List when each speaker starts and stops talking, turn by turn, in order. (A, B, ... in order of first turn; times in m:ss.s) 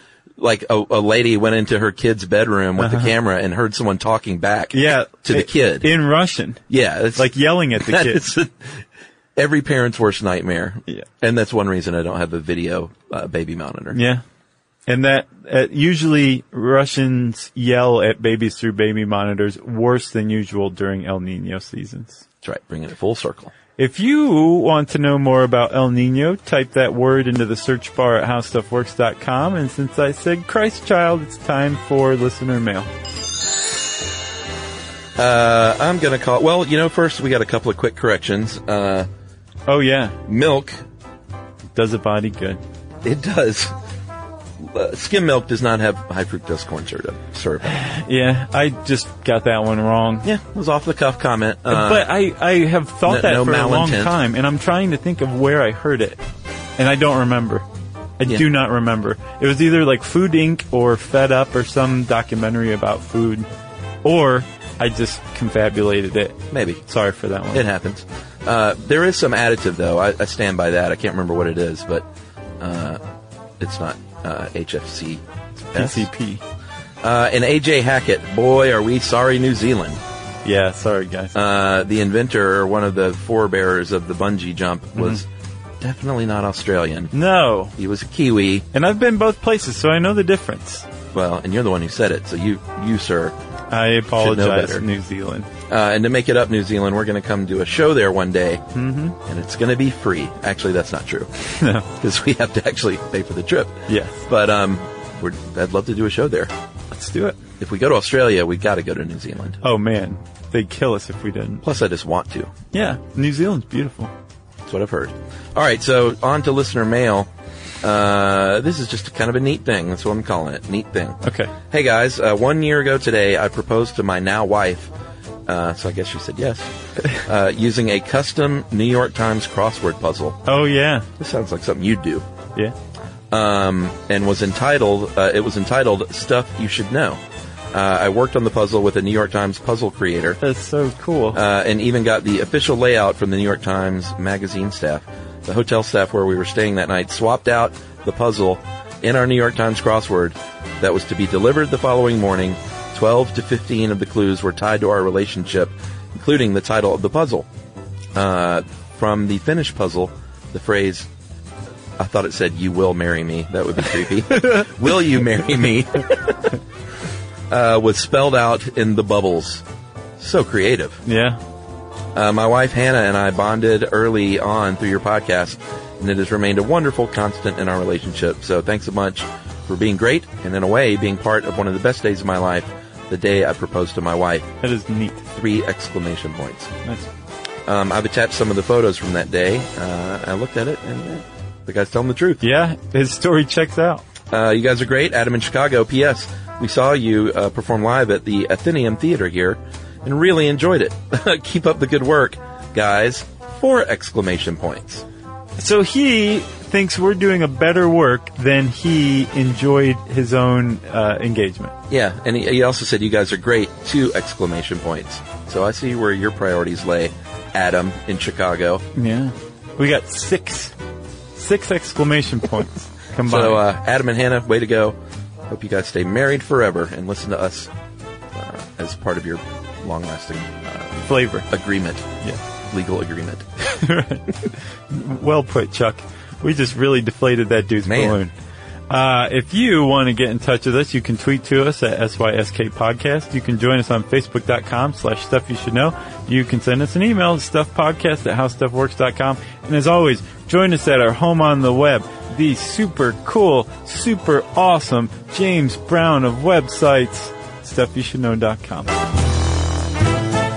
0:00.4-0:05.9 A
0:02.8-0:03.1 B
0:04.7-0:06.6 B
0:06.7-0:08.8 A
0:07.2-0:08.2 B
0:09.4-0:14.0 A
0:13.9-0:14.2 B
0:14.9-0:22.2 B
0:22.4-0:23.5 A
0:23.8-0:32.9 B
0:35.2-0:39.1 A
0:39.7-0:40.2 B
0:40.2-0:40.8 A
0:41.7-0:42.6 B
0:43.0-0:43.7 A
0:44.6-0:47.8 A
0:47.6-0:50.3 B
0:50.2-0:52.1 A
0:51.7-0:56.2 B
0:53.0-0:54.1 A
0:56.8-0:57.6 B
0:58.2-1:03.5 B
1:04.0-1:07.7 B
1:06.5-1:06.8 A
1:07.5-1:12.0 A
1:12.6-1:13.0 A
1:13.6-1:16.1 A
1:15.7-1:16.4 B
1:17.0-1:20.0 A
1:20.4-1:21.4 B
1:21.4-1:25.2 A
1:25.0-1:25.2 B
1:25.8-1:27.1 A
1:27.1-1:27.7 B
1:27.8-1:28.6 A
1:28.7-1:30.9 B
1:31.1-1:33.4 A
1:33.7-1:35.5 B
1:34.2-1:34.8 A
1:35.7-1:38.6 A
1:38.7-1:39.2 B
1:39.2-1:46.5 A
1:41.6-1:41.9 B
1:43.9-1:44.3 B
1:46.9-1:47.4 B
1:47.6-1:49.6 A
1:49.6-1:51.6 B
1:51.6-1:52.5 A
1:52.7-1:54.1 B
1:54.6-1:57.3 A
1:57.8-2:04.9 A
2:01.2-2:01.5 B
2:05.4-2:10.4 A
2:10.4-2:11.1 B
2:11.2-2:12.2 A
2:13.3-2:17.2 A
2:17.7-2:20.4 A
2:20.4-2:21.4 B
2:21.3-2:37.5 A
2:38.1-2:41.1 A
2:42.0-2:46.6 A
2:44.3-2:44.6 B
2:47.5-2:49.6 A
2:50.2-2:51.0 A
2:51.0-2:51.4 B
2:52.1-3:04.5 A
3:04.6-3:05.2 B
3:05.3-3:06.7 A
3:07.6-3:12.4 A
3:12.4-3:14.0 B
3:14.3-3:25.0 A
3:25.6-3:31.7 B
3:31.9-3:38.8 A
3:39.0-3:40.7 B
3:41.4-3:43.6 B
3:43.2-3:45.0 A
3:45.5-3:47.7 A
3:48.3-3:51.0 A
3:51.0-3:51.5 B
3:51.5-3:52.1 A
3:52.6-3:53.5 A
3:53.6-3:58.3 B
3:57.8-3:58.2 A
3:58.9-4:19.0 B